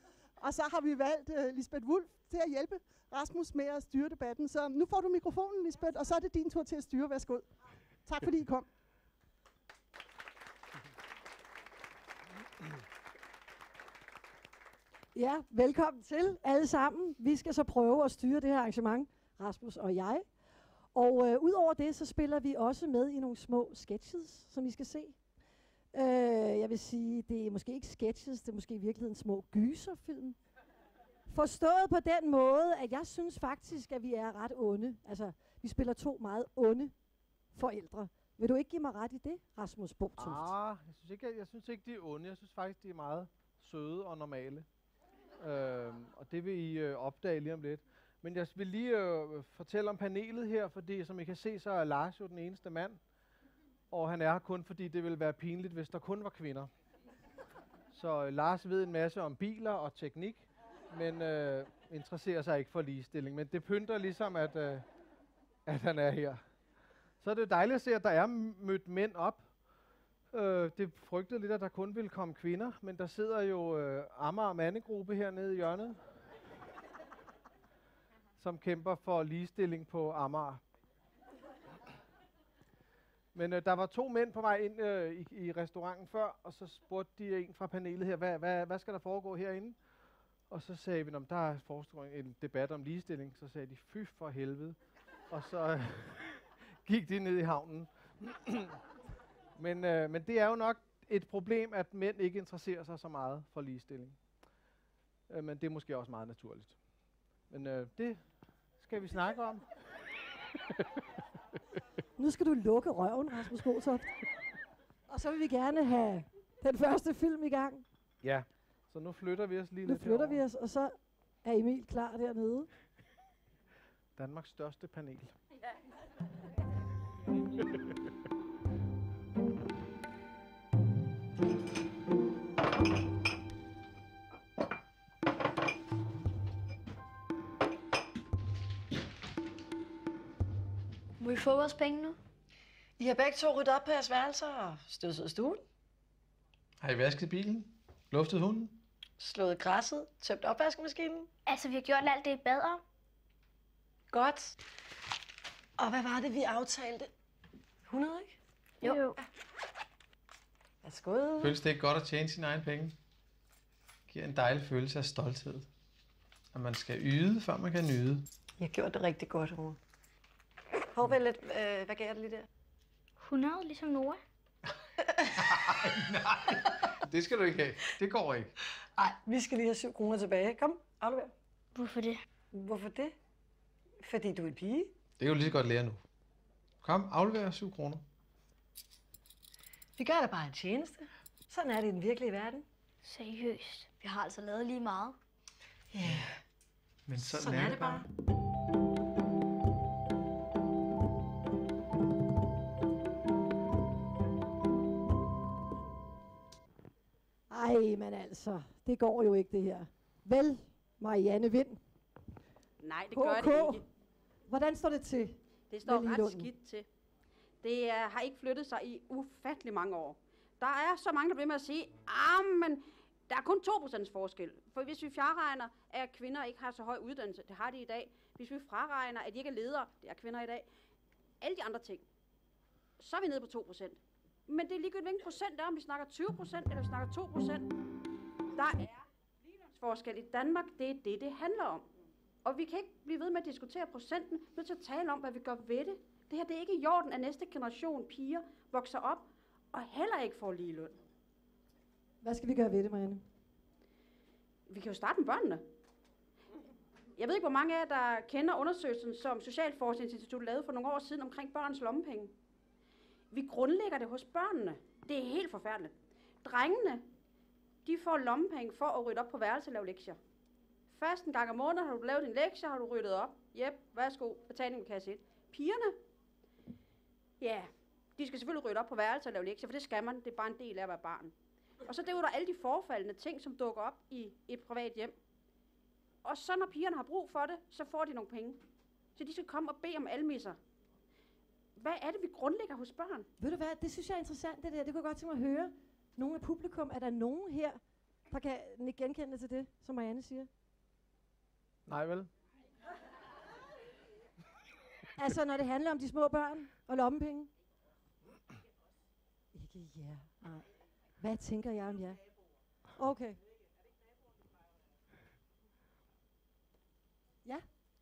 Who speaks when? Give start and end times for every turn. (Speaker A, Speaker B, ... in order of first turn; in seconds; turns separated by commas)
Speaker A: 0.4-7.5, Speaker A: 8.1-8.7, Speaker B: 15.1-20.3, Speaker B: 20.9-25.2, Speaker B: 25.9-30.4, Speaker B: 31.3-36.9, Speaker B: 37.5-40.5, Speaker C: 40.2-44.6, Speaker C: 45.4-53.0, Speaker C: 53.9-56.7, Speaker C: 57.9-64.8, Speaker C: 65.7-66.4, Speaker C: 67.2-69.5, Speaker C: 70.3-76.0, Speaker C: 78.4-80.6, Speaker C: 83.3-89.8, Speaker C: 90.5-94.8, Speaker C: 95.3-98.8, Speaker C: 99.6-104.2, Speaker C: 105.3-106.7, Speaker C: 107.5-108.2, Speaker C: 108.8-109.6, Speaker B: 112.2-114.1, Speaker B: 115.1-117.8, Speaker C: 118.2-120.4, Speaker B: 119.8-122.7, Speaker C: 124.2-125.3, Speaker D: 141.2-142.2, Speaker E: 143.0-145.6, Speaker F: 146.8-148.8, Speaker E: 149.2-151.3, Speaker D: 151.4-152.8, Speaker E: 154.1-154.5, Speaker E: 155.8-157.1, Speaker E: 157.9-159.2, Speaker D: 158.8-159.2, Speaker E: 160.8-161.6, Speaker F: 161.4-162.9, Speaker F: 164.1-165.7, Speaker F: 166.5-168.2, Speaker E: 168.6-169.8, Speaker E: 170.9-172.5, Speaker D: 173.2-174.2, Speaker F: 175.5-176.6, Speaker F: 177.1-178.5, Speaker E: 179.0-181.3, Speaker D: 181.7-182.2, Speaker E: 182.5-183.2, Speaker E: 184.0-184.9, Speaker F: 185.2-186.0, Speaker F: 186.8-188.0, Speaker E: 190.0-192.6, Speaker D: 193.0-195.2, Speaker E: 195.9-196.4, Speaker F: 197.1-198.0, Speaker E: 197.2-198.1, Speaker B: 207.5-211.8, Speaker G: 212.8-213.8, Speaker B: 213.1-213.8, Speaker B: 214.5-216.5, Speaker G: 215.7-216.8, Speaker G: 217.6-230.7, Speaker G: 231.4-232.1, Speaker G: 233.0-237.7, Speaker G: 238.5-239.0, Speaker G: 239.7-241.9, Speaker G: 242.4-251.0, Speaker B: 252.2-253.2, Speaker G: 254.7-255.7, Speaker G: 257.1-262.3, Speaker G: 263.3-267.1, Speaker G: 267.8-270.2, Speaker G: 270.9-276.0, Speaker G: 277.4-281.3, Speaker G: 281.8-285.1, Speaker G: 286.2-288.6, Speaker G: 289.1-290.6, Speaker G: 291.8-293.3, Speaker B: 293.4-300.5, Speaker C: 301.9-302.3, Speaker B: 305.2-307.5, Speaker B: 309.5-310.6, Speaker B: 311.2-312.2, Speaker B: 313.0-313.4